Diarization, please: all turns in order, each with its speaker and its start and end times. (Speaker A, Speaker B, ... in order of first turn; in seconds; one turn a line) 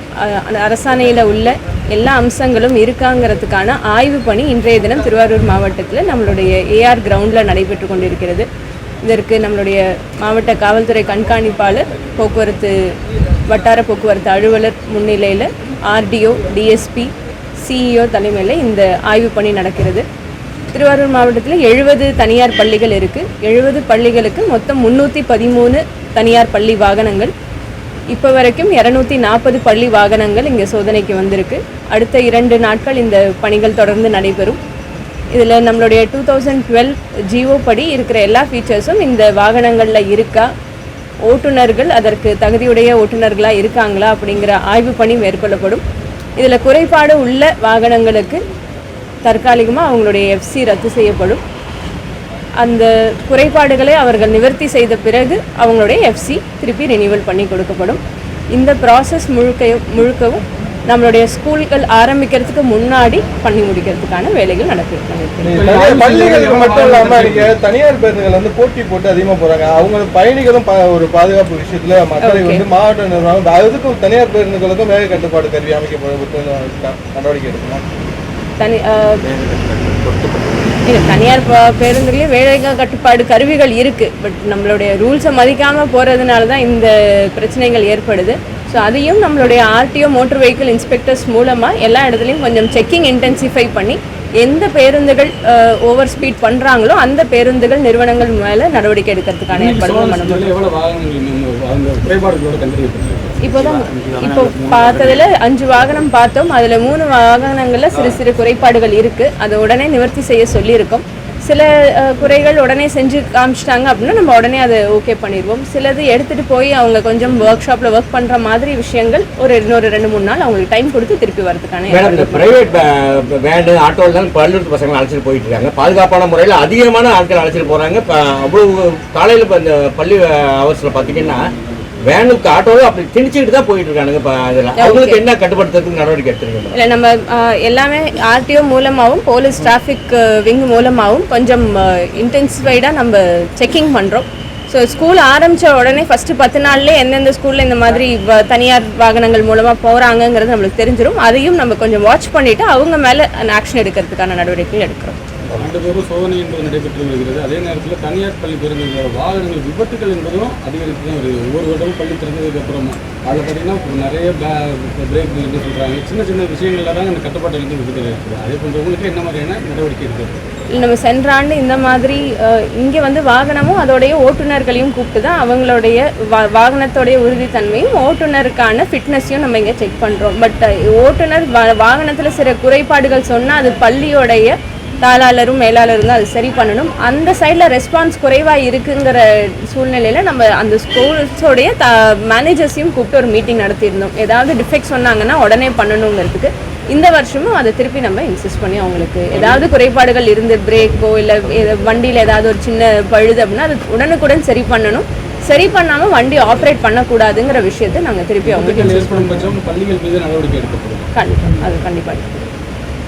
Speaker A: 0.2-8.5
Speaker A: 9.0-12.8
Speaker A: 13.5-17.1
Speaker A: 17.6-20.1
Speaker A: 20.7-27.3
Speaker A: 28.1-34.6
Speaker A: 35.4-40.5
Speaker A: 41.3-45.8
Speaker A: 46.4-48.4
Speaker A: 49.2-51.4
Speaker A: 52.6-58.0
Speaker A: 58.5-65.7
Speaker B: 65.4-77.8
Speaker C: 65.5-67.6
Speaker A: 72.2-72.6
Speaker A: 78.6-79.3
Speaker A: 80.6-100.6
Speaker C: 99.5-105.2
Speaker A: 103.4-122.6
Speaker C: 107.9-108.2
Speaker D: 121.9-131.4
Speaker D: 132.1-136.8
Speaker A: 134.8-135.2
Speaker A: 136.7-155.2
Speaker C: 155.5-170.4
Speaker A: 170.7-209.3
Speaker C: 199.3-199.7
Speaker C: 208.4-211.1
Speaker A: 211.2-212.4